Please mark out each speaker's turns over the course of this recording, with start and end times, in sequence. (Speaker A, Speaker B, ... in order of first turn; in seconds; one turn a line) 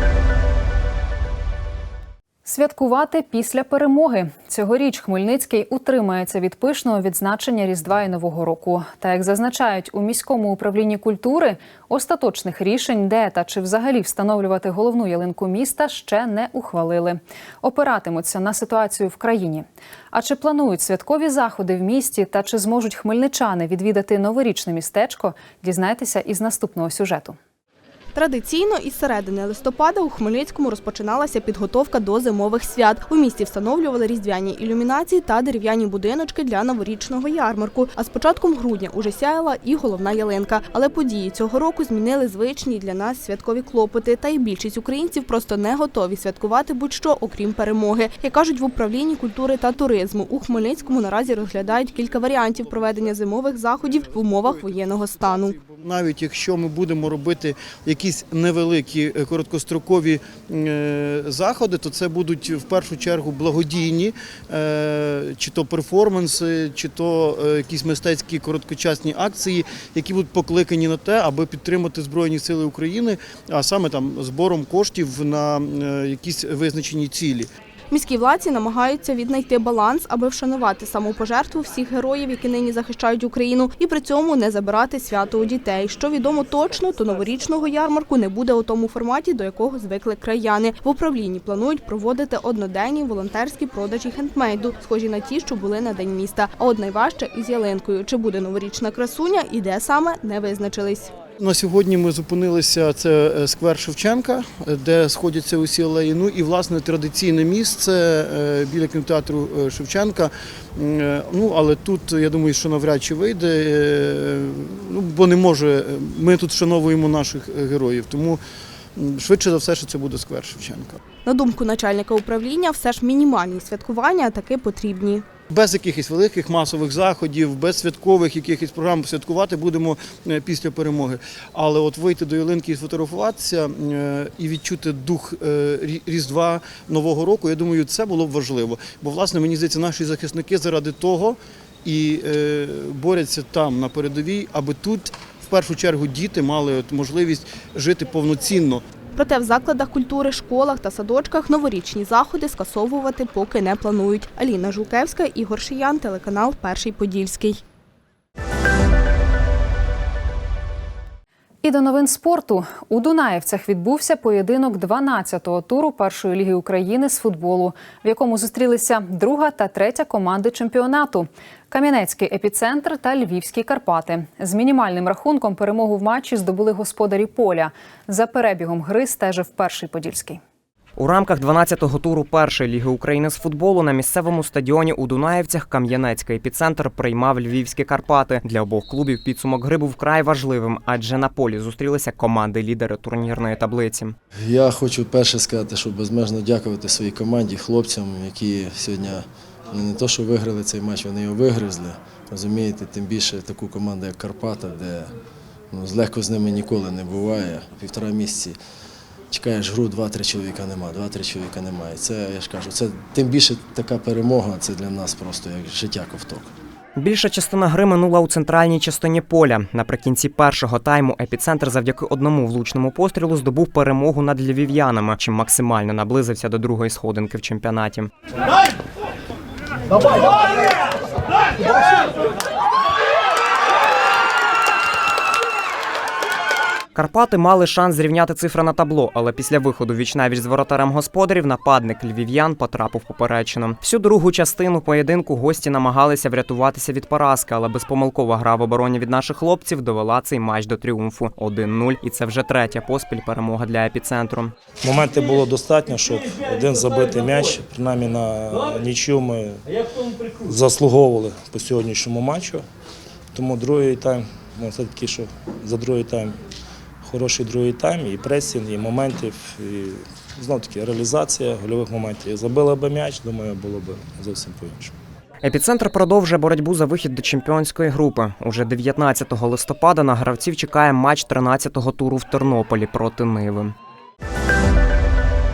Speaker A: 2.5-27.4
Speaker B: 28.1-55.6
Speaker C: 52.6-53.2
Speaker C: 54.0-77.5
Speaker B: 77.9-101.2
Speaker C: 101.4-118.4
Speaker C: 119.0-121.0
Speaker B: 121.2-125.3
Speaker C: 125.5-148.8
Speaker B: 149.2-157.6
Speaker A: 161.6-180.4
Speaker D: 181.0-194.2
Speaker E: 194.5-199.1
Speaker E: 199.8-205.0
Speaker E: 205.8-208.5
Speaker E: 209.3-216.4
Speaker D: 217.0-228.1
Speaker D: 236.9-254.5
Speaker F: 254.8-259.6
Speaker F: 260.4-262.6
Speaker F: 263.4-266.4
Speaker F: 267.1-274.9
Speaker D: 275.4-283.7